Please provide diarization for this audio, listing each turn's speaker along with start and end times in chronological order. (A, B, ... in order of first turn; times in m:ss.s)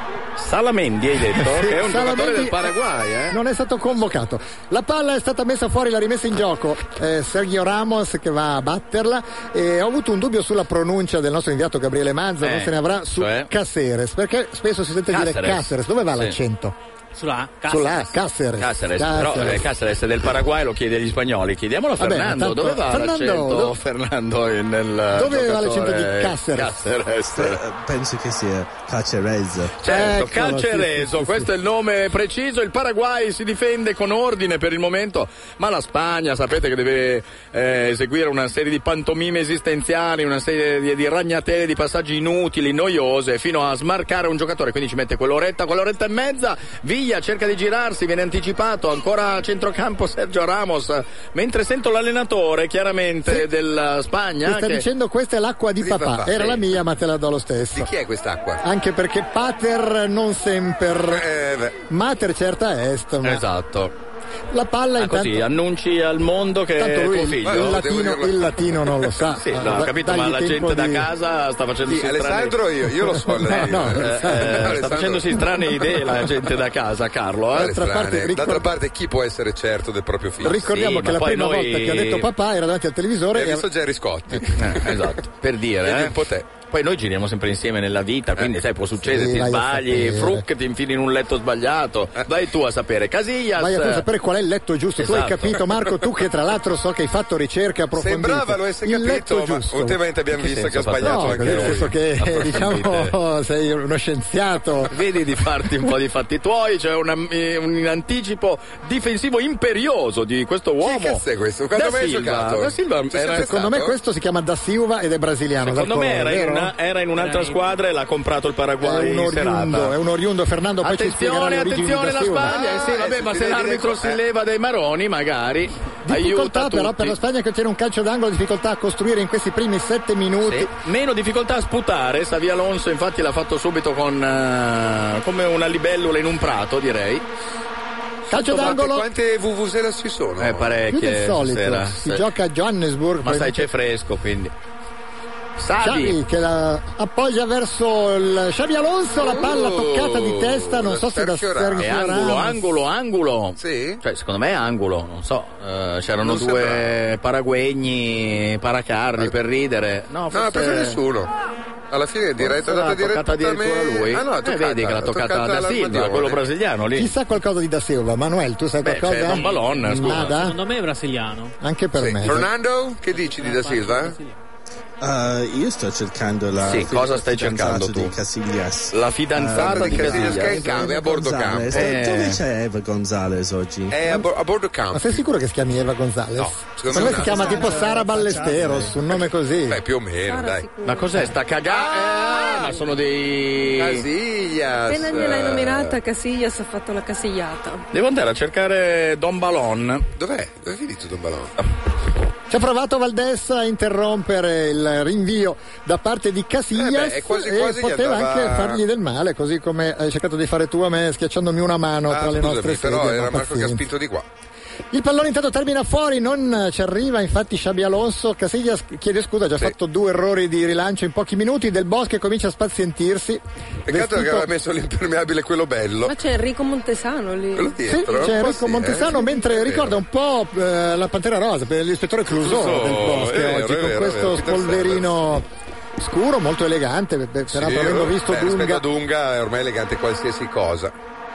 0:00.4-0:03.4 A
0:01.4-0:02.7 B
0:03.3-0:16.8 B
0:12.4-0:13.5 A
0:15.1-0:16.4 A
0:17.1-0:18.1 C
0:17.7-0:19.7 B
0:18.6-0:27.6 A
0:22.0-0:23.7 B
0:25.1-0:26.8 B
0:27.4-0:30.3 D
0:29.8-0:54.8 A
0:29.9-0:31.5 B
0:54.4-0:57.9 B
0:55.8-0:56.6 E
0:57.7-0:58.6 E
0:58.6-1:01.2 B
1:01.1-1:01.8 E
1:01.9-1:03.4 B
1:03.2-1:03.9 A
1:04.5-1:05.5 B
1:05.0-1:08.0 A
1:06.8-1:11.1 B
1:07.4-1:08.7 E
1:09.3-1:12.6 A
1:11.8-1:15.6 E
1:13.2-1:14.7 B
1:13.5-1:17.8 A
1:17.5-1:20.7 E
1:17.6-1:18.7 B
1:20.4-1:23.7 B
1:20.4-1:22.3 A
1:23.3-1:25.1 E
1:24.6-1:34.1 A
1:25.8-1:26.5 E
1:29.1-1:30.4 B
1:33.6-1:40.0 B
1:35.0-1:35.7 A
1:38.0-1:41.9 E
1:40.4-1:43.2 A
1:41.0-1:44.9 B
1:44.9-1:51.2 A
1:50.8-1:54.0 E
1:51.7-1:53.5 A
1:53.3-1:56.7 B
1:55.6-2:00.0 A
1:57.2-1:57.7 C
1:58.8-2:02.5 B
2:00.8-2:07.2 A
2:02.4-2:04.2 E
2:06.1-2:10.7 B
2:10.4-2:17.2 A
2:18.3-2:19.1 B
2:18.3-2:20.8 E
2:20.4-2:22.3 A
2:20.9-2:23.7 B
2:23.2-2:24.5 A
2:25.6-2:26.2 A
2:25.8-2:32.7 B
2:29.2-2:32.0 E
2:31.8-2:41.0 A
2:33.6-2:34.0 E
2:36.2-2:37.0 E
2:40.3-2:41.3 E
2:41.9-2:46.4 E
2:42.4-2:47.2 A
2:47.0-2:50.6 B
2:48.8-2:50.4 A
2:49.3-2:51.6 C
2:51.6-2:52.5 B
2:52.0-2:54.2 E
2:53.1-2:54.4 C
2:55.0-3:04.1 D
2:56.6-2:58.2 A
2:58.9-3:00.8 A
2:59.6-3:01.9 E
3:01.7-3:02.4 A
3:03.9-3:05.2 E
3:04.9-3:09.8 B
3:06.4-3:07.7 E
3:06.9-3:09.0 D
3:09.7-3:10.7 E
3:10.2-3:11.3 F
3:10.8-3:14.1 A
3:11.7-3:12.8 E
3:13.8-3:16.0 E
3:14.9-3:17.8 F
3:17.9-3:20.1 A
3:20.2-3:21.6 E
3:22.5-3:33.9 B
3:26.8-3:28.8 E
3:32.1-3:34.3 E
3:34.9-3:44.5 B
3:43.9-3:46.2 E
3:46.0-3:48.3 F
3:47.5-3:50.0 E
3:47.8-3:55.5 B
3:52.3-3:55.4 E
3:56.0-3:58.8 B
3:57.5-4:00.9 E